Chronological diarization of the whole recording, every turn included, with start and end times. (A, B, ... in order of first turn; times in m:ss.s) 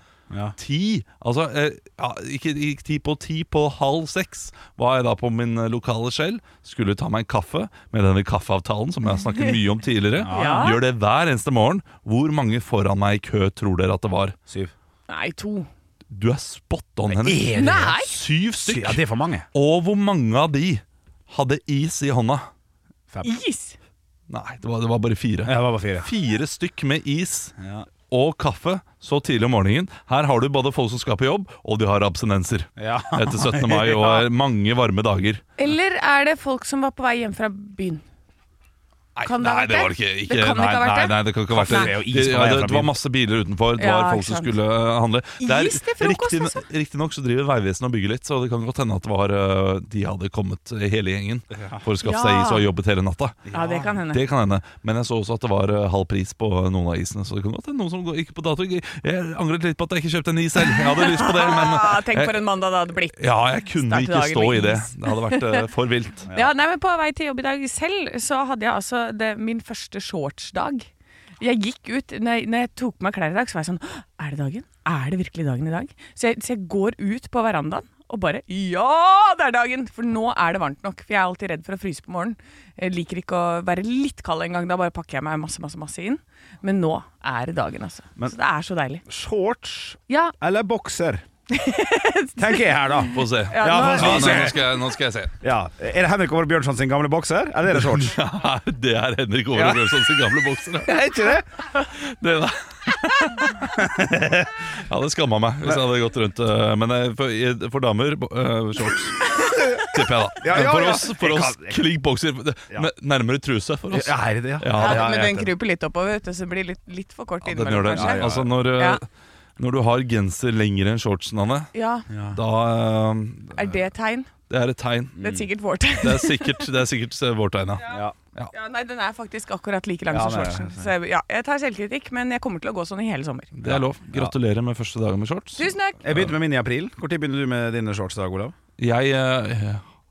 0:00.3-0:00.6 A
0:00.6-0:14.4 B
0:10.2-0:10.7 A
0:10.3-0:10.8 C
0:15.1-0:15.7 C
0:16.1-0:19.0 B
0:17.1-0:18.0 A
0:17.5-0:18.2 C
0:18.6-0:19.5 A
0:19.5-0:22.5 B
0:23.2-0:23.8 C
0:24.3-0:27.5 B
0:25.4-0:26.1 A
0:27.6-0:27.9 A
0:28.1-0:35.4 B
0:32.8-0:34.2 A
0:35.6-0:38.0 C
0:39.1-0:53.5 B
0:39.2-0:41.9 C
0:41.5-0:42.9 A
0:43.8-0:44.5 C
0:45.4-0:46.6 C
0:51.6-0:51.8 A
0:52.0-0:52.6 C
0:53.5-0:53.9 A
0:53.5-0:54.2 C
0:54.1-1:02.4 B
1:00.7-1:05.6 C
1:03.1-1:06.3 B
1:06.3-1:10.9 C
1:11.4-1:29.0 C
1:29.0-1:31.2 A
1:31.5-1:34.5 C
1:32.4-1:34.7 A
1:33.1-1:35.3 B
1:35.4-1:38.2 A
1:37.7-1:40.9 B
1:39.5-1:39.9 A
1:40.8-1:41.4 A
1:41.8-1:43.6 B
1:43.8-1:44.5 A
1:44.8-1:49.3 B
1:49.4-1:49.8 A
1:49.8-1:55.1 B
1:50.4-1:51.9 A
1:53.9-1:55.5 A
1:54.8-1:59.0 C
1:57.4-1:59.0 B
1:57.9-1:58.5 A
1:59.6-2:01.7 B
2:01.7-2:02.1 C
2:02.1-2:02.4 A
2:02.3-2:03.8 B
2:03.5-2:04.3 C
2:04.5-2:05.3 B
2:05.2-2:05.5 A
2:05.2-2:06.6 C
2:06.0-2:08.5 B
2:07.9-2:08.2 A
2:08.5-2:13.5 C
2:10.1-2:10.9 A
2:13.6-2:14.3 A
2:13.6-2:16.3 B
2:15.6-2:16.0 C
2:16.0-2:18.5 A
2:18.8-2:19.8 B